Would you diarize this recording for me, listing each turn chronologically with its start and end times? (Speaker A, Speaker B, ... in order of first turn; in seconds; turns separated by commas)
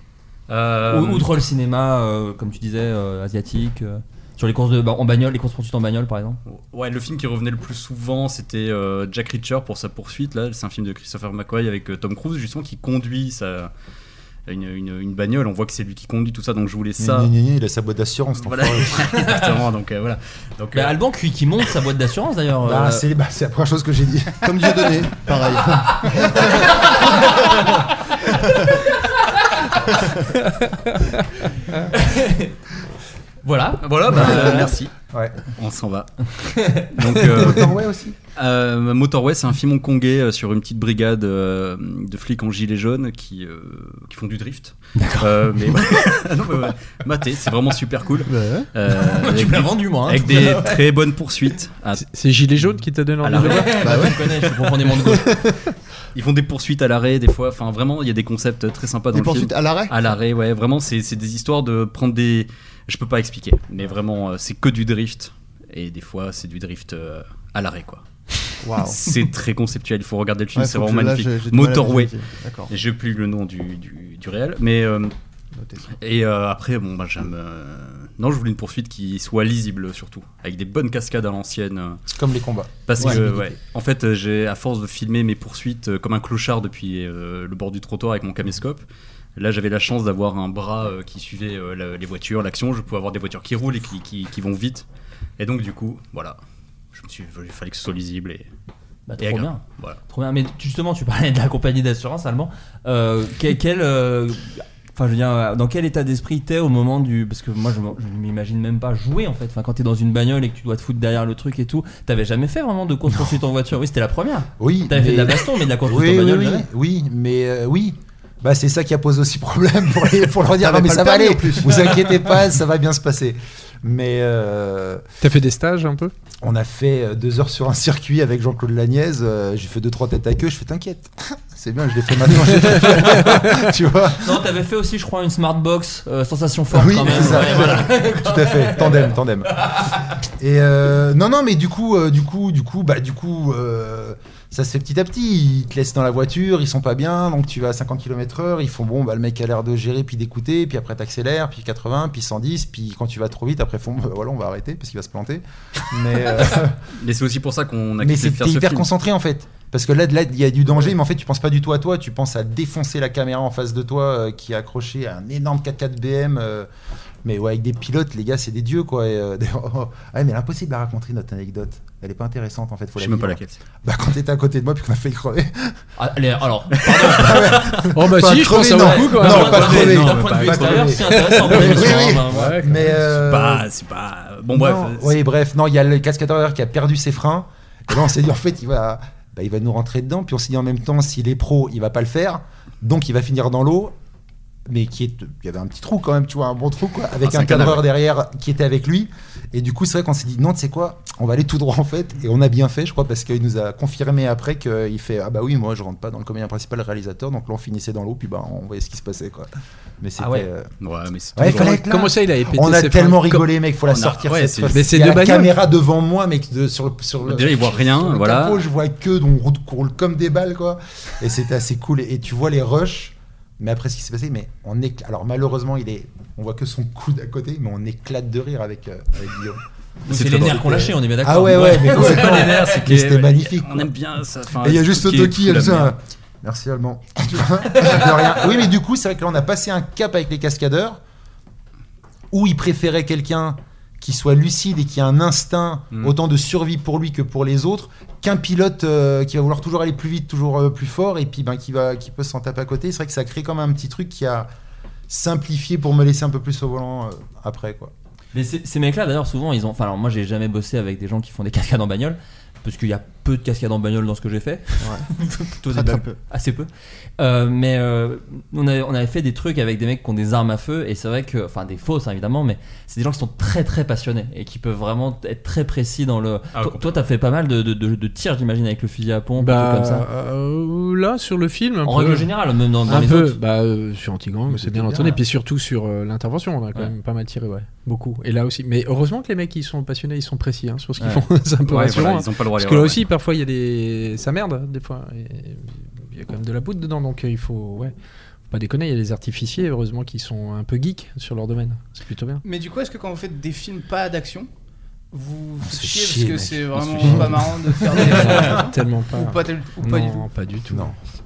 Speaker A: 0.5-1.3, Speaker B: 0.9-6.4, Speaker A: 6.5-13.7, Speaker A: 14.5-17.3, Speaker C: 17.0-19.1, Speaker A: 18.4-20.9, Speaker B: 20.7-23.0, Speaker C: 22.6-24.8, Speaker D: 24.4-26.7, Speaker B: 31.9-32.5, Speaker B: 33.4-34.7, Speaker A: 33.8-34.9, Speaker C: 34.1-34.6, Speaker A: 35.5-37.8, Speaker B: 36.6-36.9, Speaker C: 37.3-38.1, Speaker A: 38.4-52.0, Speaker B: 45.0-45.5, Speaker D: 48.2-48.7, Speaker B: 48.9-50.8, Speaker E: 52.0-54.0, Speaker A: 53.2-53.9, Speaker B: 53.3-55.3, Speaker D: 53.8-54.2, Speaker A: 56.1-68.0, Speaker D: 59.1-60.0, Speaker D: 68.6-69.1, Speaker A: 68.7-72.1, Speaker D: 70.5-72.7, Speaker A: 72.7-75.1, Speaker D: 75.5-75.9, Speaker A: 75.9-82.0, Speaker C: 82.1-83.5, Speaker A: 82.8-88.8, Speaker A: 89.4-94.8, Speaker A: 95.4-96.4, Speaker A: 96.9-98.5, Speaker B: 99.1-116.7, Speaker A: 99.2-100.0, Speaker C: 114.6-125.0, Speaker D: 120.6-121.9, Speaker E: 125.2-126.1, Speaker C: 126.4-134.3, Speaker E: 132.9-133.5, Speaker B: 134.2-139.1, Speaker C: 136.7-139.6, Speaker C: 140.4-156.8, Speaker A: 157.0-158.9, Speaker C: 158.0-166.7, Speaker C: 167.2-175.7, Speaker A: 173.0-173.6, Speaker B: 176.0-177.8, Speaker A: 177.0-177.5, Speaker C: 177.1-183.7, Speaker E: 177.9-179.8, Speaker B: 178.6-182.6, Speaker A: 179.2-182.0, Speaker E: 182.3-182.9, Speaker A: 183.1-185.2, Speaker C: 184.5-193.9, Speaker C: 194.7-209.5, Speaker A: 197.2-197.8, Speaker C: 210.0-210.7, Speaker B: 210.2-210.5, Speaker A: 210.8-211.7, Speaker C: 211.3-229.6, Speaker E: 211.4-213.4, Speaker A: 213.9-214.8, Speaker E: 214.7-215.5, Speaker A: 217.2-218.7, Speaker B: 230.1-232.8, Speaker A: 230.1-230.7, Speaker C: 230.5-233.9, Speaker A: 231.5-235.9, Speaker C: 234.6-241.0, Speaker C: 242.3-254.5, Speaker C: 255.1-257.9, Speaker B: 258.3-266.7, Speaker D: 264.8-265.1, Speaker D: 265.7-266.2, Speaker B: 267.2-280.1, Speaker A: 276.5-276.9, Speaker E: 279.4-282.3, Speaker B: 281.8-283.4, Speaker E: 282.9-297.9, Speaker B: 284.5-285.1, Speaker C: 284.9-285.1, Speaker A: 291.7-293.0, Speaker E: 298.5-302.4, Speaker F: 302.4-304.5, Speaker F: 305.1-310.3, Speaker C: 305.6-308.6, Speaker E: 308.1-310.9, Speaker C: 310.7-310.9